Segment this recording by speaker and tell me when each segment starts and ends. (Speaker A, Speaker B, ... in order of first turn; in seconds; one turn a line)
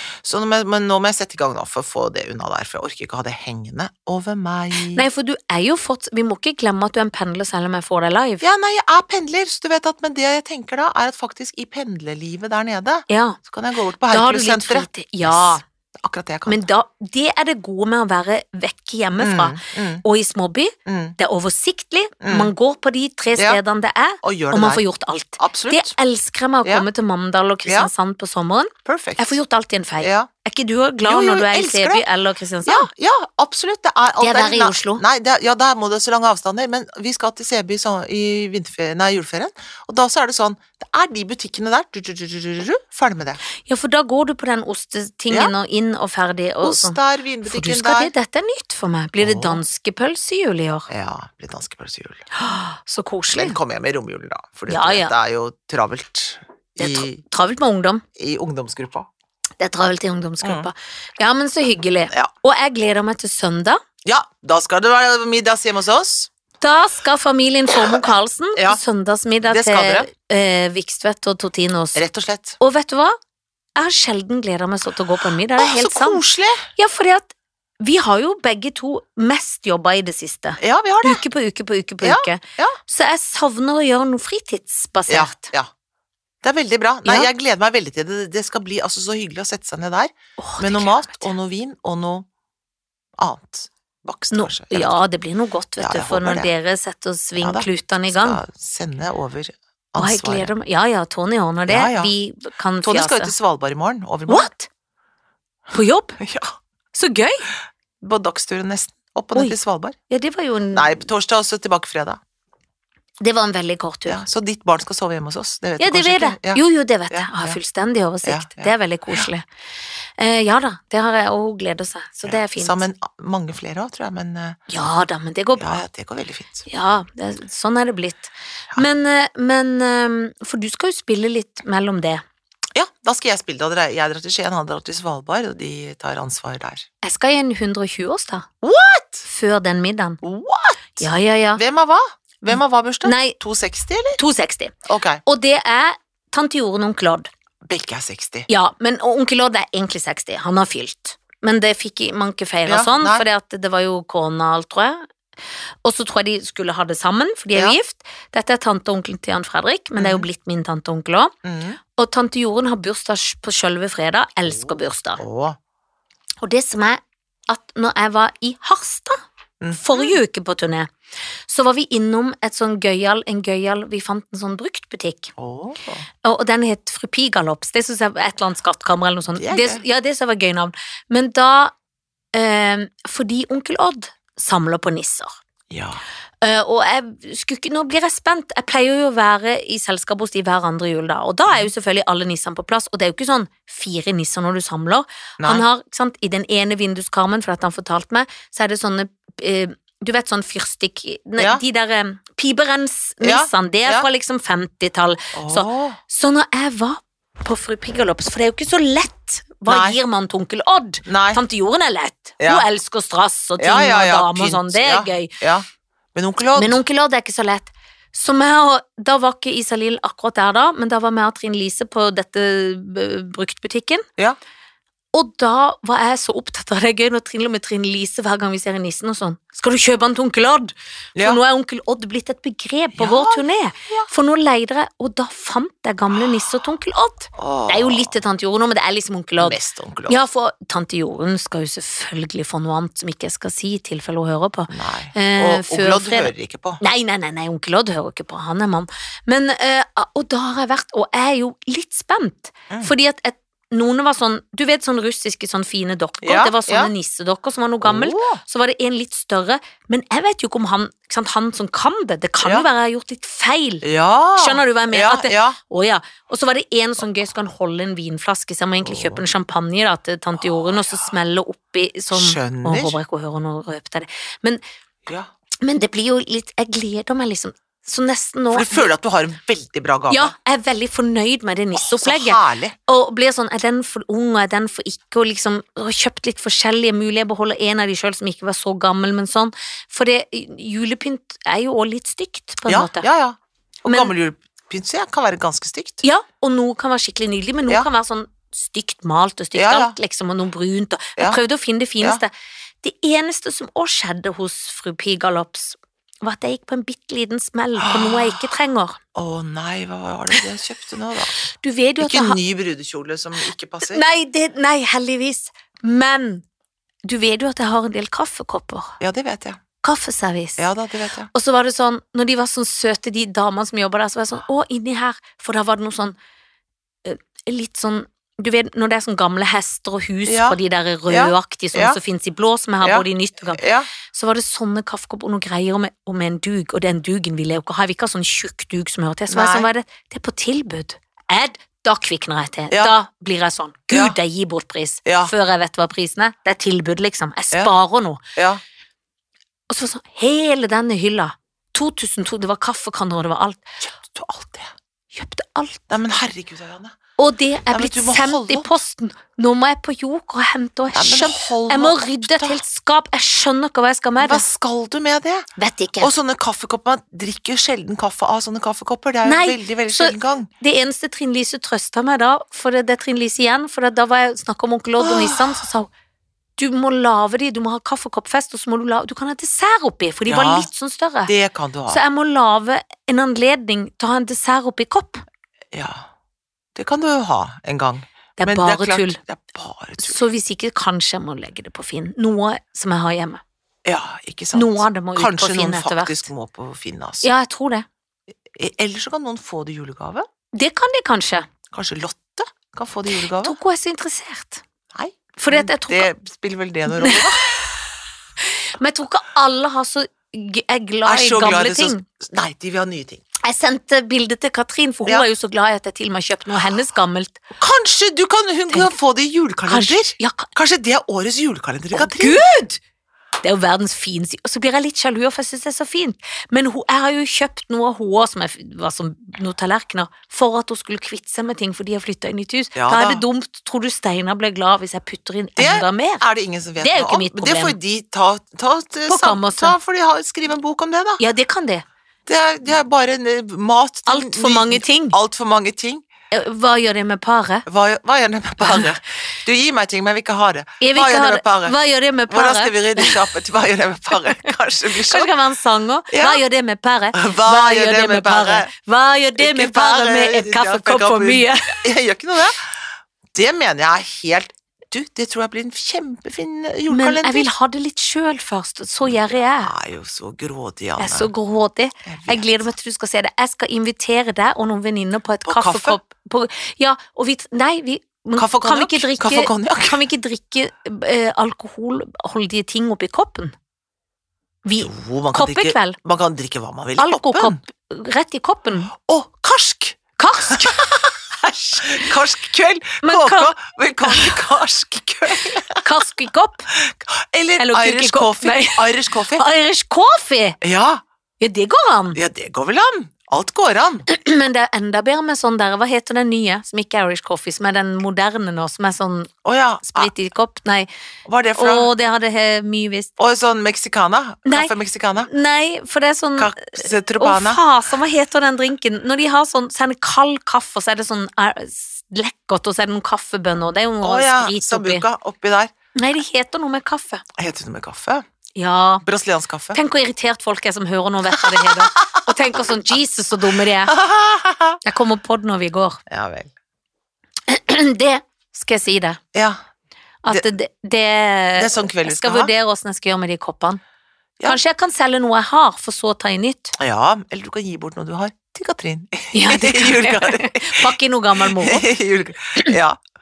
Speaker A: 0.2-5.0
Speaker B: 4.9-8.4
Speaker A: 8.4-16.7
Speaker B: 13.1-13.4
Speaker B: 14.1-15.6
Speaker B: 16.4-32.9
Speaker A: 19.2-20.0
Speaker A: 20.9-21.1
Speaker A: 22.2-22.5
Speaker A: 24.2-24.8
Speaker A: 25.4-25.9
Speaker A: 27.6-27.9
Speaker A: 28.9-29.3
Speaker A: 30.0-30.3
Speaker A: 31.0-32.0
Speaker A: 32.6-43.4
Speaker B: 34.2-35.0
Speaker B: 43.6-50.9
Speaker A: 46.6-48.1
Speaker A: 49.2-49.6
Speaker A: 50.9-52.2
Speaker B: 52.3-53.6
Speaker A: 53.3-57.2
Speaker B: 54.7-55.1
Speaker B: 56.8-58.0
Speaker A: 58.1-59.1
Speaker B: 59.6-63.8
Speaker A: 60.4-60.7
Speaker A: 64.0-66.3
Speaker B: 66.6-72.0
Speaker A: 67.8-68.0
Speaker A: 68.5-68.8
Speaker A: 69.4-70.1
Speaker A: 71.9-72.6
Speaker B: 72.6-73.1
Speaker B: 73.8-76.2
Speaker A: 75.5-76.6
Speaker B: 76.8-85.5
Speaker A: 80.6-81.2
Speaker A: 82.0-82.8
Speaker A: 85.1-85.7
Speaker A: 86.4-92.2
Speaker B: 87.0-87.3
Speaker B: 90.4-91.3
Speaker A: 93.2-95.1
Speaker B: 94.3-98.4
Speaker A: 95.8-96.5
Speaker A: 97.4-100.5
Speaker B: 100.0-103.3
Speaker A: 101.7-102.1
Speaker A: 102.8-104.5
Speaker B: 104.3-104.7
Speaker B: 105.7-106.2
Speaker A: 106.2-106.5
Speaker B: 106.9-107.5
Speaker A: 108.0-110.0
Speaker B: 110.1-111.1
Speaker A: 110.7-112.2
Speaker B: 113.2-114.2
Speaker A: 114.1-117.6
Speaker B: 115.8-119.4
Speaker A: 118.2-119.2
Speaker B: 120.2-122.8
Speaker A: 122.2-124.6
Speaker B: 124.7-125.8
Speaker A: 125.6-126.7
Speaker B: 126.7-132.2
Speaker A: 132.7-136.8
Speaker B: 137.0-138.5
Speaker A: 138.6-139.2
Speaker B: 139.2-140.2
Speaker A: 140.2-144.2
Speaker B: 141.0-141.6
Speaker B: 143.0-143.4
Speaker B: 144.2-147.3
Speaker A: 144.8-145.2
Speaker A: 147.7-148.5
Speaker B: 148.5-155.1
Speaker A: 152.7-153.2
Speaker B: 155.8-161.3
Speaker A: 160.0-160.3
Speaker A: 161.4-161.8
Speaker B: 162.0-165.2
Speaker A: 165.2-165.6
Speaker B: 166.4-169.2
Speaker A: 169.6-170.2
Speaker B: 169.7-170.9
Speaker B: 171.5-175.3
Speaker A: 175.4-176.0
Speaker B: 176.2-181.7
Speaker A: 179.4-179.8
Speaker B: 182.3-185.3
Speaker A: 185.7-186.0
Speaker B: 186.4-215.3
Speaker A: 195.4-195.7
Speaker A: 203.2-204.1
Speaker A: 205.3-206.0
Speaker A: 209.7-210.0
Speaker A: 211.1-211.4
Speaker A: 212.4-212.6
Speaker A: 213.6-216.8
Speaker B: 216.5-224.1
Speaker B: 225.1-263.8
Speaker A: 231.2-231.4
Speaker A: 232.9-234.1
Speaker A: 237.3-238.1
Speaker A: 239.4-240.2
Speaker A: 244.7-246.8
Speaker A: 256.2-256.9
Speaker A: 257.8-258.4
Speaker A: 262.4-262.7
Speaker A: 263.8-265.6
Speaker B: 264.4-274.6
Speaker A: 268.8-269.2
Speaker A: 270.4-271.1
Speaker A: 272.1-273.0
Speaker A: 275.1-275.3
Speaker B: 275.6-278.9
Speaker A: 278.5-280.3
Speaker B: 280.1-293.1
Speaker A: 281.7-282.7
Speaker A: 292.7-296.0
Speaker B: 293.9-294.1
Speaker B: 296.0-302.3
Speaker A: 299.5-299.9
Speaker B: 302.8-309.0
Speaker A: 307.8-308.4
Speaker A: 309.1-311.3
Speaker B: 311.6-312.4
Speaker A: 312.0-314.0
Speaker B: 313.8-316.4
Speaker B: 317.0-319.0
Speaker A: 319.0-319.6
Speaker B: 319.8-320.6
Speaker A: 320.6-321.3
Speaker B: 321.3-326.1
Speaker B: 327.0-348.2
Speaker A: 330.2-332.0
Speaker A: 332.8-333.9
Speaker A: 339.3-339.7
Speaker A: 343.9-344.1
Speaker A: 345.1-345.3
Speaker A: 348.4-348.6
Speaker B: 349.7-353.7
Speaker A: 353.8-354.7
Speaker B: 355.1-355.9
Speaker A: 355.9-356.9
Speaker B: 357.2-364.4
Speaker A: 357.7-358.7
Speaker A: 360.9-362.6
Speaker A: 364.2-365.5
Speaker B: 365.6-366.1
Speaker A: 366.0-370.5
Speaker B: 369.2-375.9
Speaker A: 375.0-375.6
Speaker B: 376.6-381.3
Speaker A: 380.3-380.7
Speaker A: 381.3-382.0
Speaker B: 381.9-385.2
Speaker A: 385.7-386.1
Speaker A: 386.7-390.2
Speaker B: 388.4-389.2
Speaker B: 390.0-393.4
Speaker A: 393.9-397.3
Speaker B: 394.5-396.2
Speaker B: 397.2-397.9
Speaker A: 398.5-400.2
Speaker B: 400.5-401.5
Speaker A: 401.7-403.6
Speaker B: 403.4-404.6
Speaker A: 404.9-407.4
Speaker B: 405.4-406.1
Speaker B: 406.9-407.6
Speaker B: 408.5-412.0
Speaker A: 411.0-413.2
Speaker B: 413.4-417.4
Speaker A: 417.5-422.4
Speaker B: 418.7-418.9
Speaker B: 419.7-420.5
Speaker B: 421.9-422.8
Speaker B: 423.4-436.2
Speaker A: 432.7-433.2
Speaker A: 435.6-441.2
Speaker B: 436.8-437.8
Speaker B: 439.1-439.8
Speaker B: 441.2-441.8
Speaker A: 442.3-446.0
Speaker B: 444.1-445.2
Speaker B: 446.3-447.6
Speaker A: 447.6-451.8
Speaker B: 450.8-453.2
Speaker A: 452.3-455.3
Speaker B: 454.9-461.8
Speaker A: 456.1-456.4
Speaker A: 457.1-458.7
Speaker A: 459.4-462.7
Speaker A: 463.3-467.5
Speaker B: 466.9-469.7
Speaker A: 469.6-471.3
Speaker B: 471.0-483.5
Speaker A: 472.1-472.6
Speaker A: 475.4-476.0
Speaker A: 478.4-480.0
Speaker B: 484.6-486.0
Speaker A: 484.8-487.6
Speaker B: 487.0-488.9
Speaker A: 488.9-491.2
Speaker B: 490.2-492.1
Speaker A: 491.8-495.9
Speaker B: 493.0-494.4
Speaker B: 495.8-496.7
Speaker A: 496.7-499.4
Speaker B: 497.6-500.6
Speaker A: 500.6-501.0
Speaker B: 501.4-502.2
Speaker A: 502.1-504.1
Speaker B: 504.1-509.3
Speaker A: 509.4-510.1
Speaker B: 509.9-510.9
Speaker A: 511.2-511.9
Speaker B: 511.6-513.1
Speaker A: 513.2-515.3
Speaker B: 514.5-525.0
Speaker A: 516.4-517.6
Speaker A: 524.0-525.7
Speaker B: 525.9-527.2
Speaker A: 527.4-528.2
Speaker B: 528.5-529.0
Speaker A: 529.0-529.8
Speaker B: 529.7-534.0
Speaker A: 531.3-532.3
Speaker A: 533.9-534.8
Speaker B: 534.8-536.0
Speaker A: 536.1-536.5
Speaker B: 537.5-539.2
Speaker A: 539.3-539.6
Speaker B: 540.2-543.8
Speaker A: 541.6-542.5
Speaker B: 544.4-546.8
Speaker A: 546.8-553.0
Speaker B: 549.3-551.9